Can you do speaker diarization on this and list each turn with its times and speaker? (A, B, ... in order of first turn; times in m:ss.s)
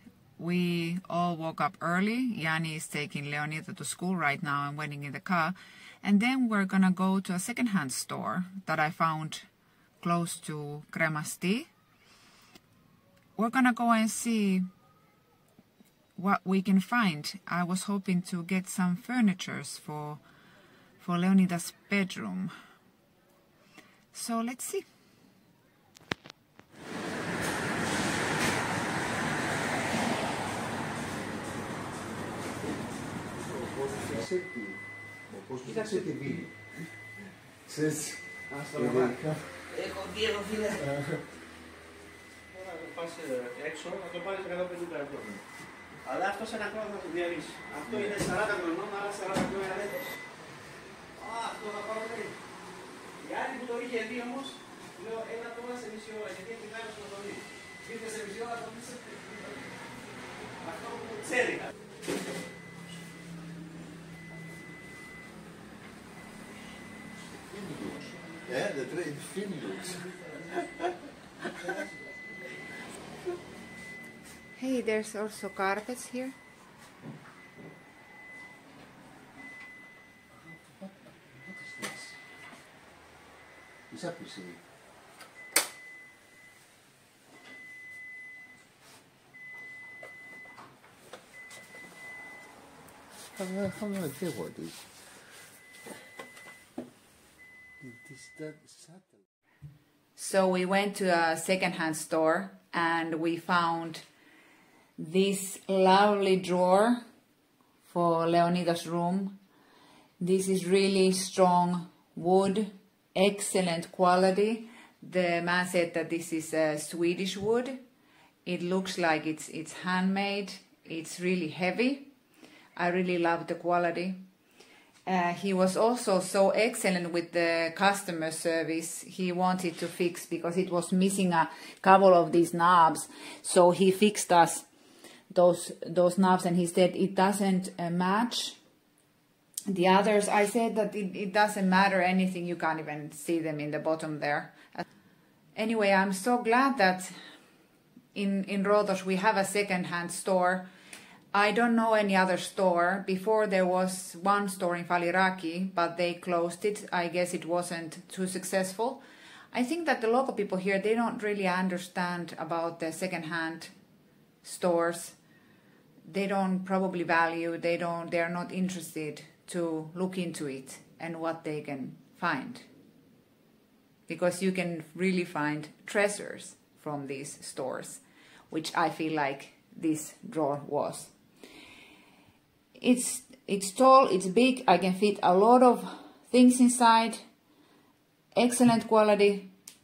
0:00.4-0:09.5 A
0:10.0-0:11.7 A
0:13.4-0:14.7 A
0:16.2-0:20.2 A
0:21.0-0:22.5 A
0:24.1-0:24.9 A
0:33.5-0:36.8 B
0:37.6-0:39.5 B
0:38.5-0:39.2 C
0:39.7-0:40.8 C
0:40.7-0:41.2 B
0:42.5-0:45.4 C
0:46.0-0:50.2 C
0:51.2-0:52.3 C
0:53.2-0:59.4 C
1:00.6-1:01.7 C
1:07.5-1:10.8 B
1:14.6-1:16.4 A
1:20.5-1:22.2 B
1:23.9-1:24.6 B
1:33.4-1:34.9 B
1:37.8-1:39.1 B
1:40.2-1:44.0 A
1:45.0-1:47.0 A
1:47.8-1:49.4 A
1:50.2-1:57.8 A
1:58.5-2:02.1 A
2:02.8-2:04.2 A
2:05.1-2:14.7 A
2:15.3-2:18.6 A
2:19.7-2:24.8 A
2:25.6-2:27.2 A
2:28.1-2:30.7 A
2:31.3-2:39.0 A
2:39.5-2:43.7 A
2:44.4-2:45.2 A
2:46.0-2:52.7 A
2:54.1-3:01.1 A
3:02.8-3:07.2 A
3:08.4-3:09.5 A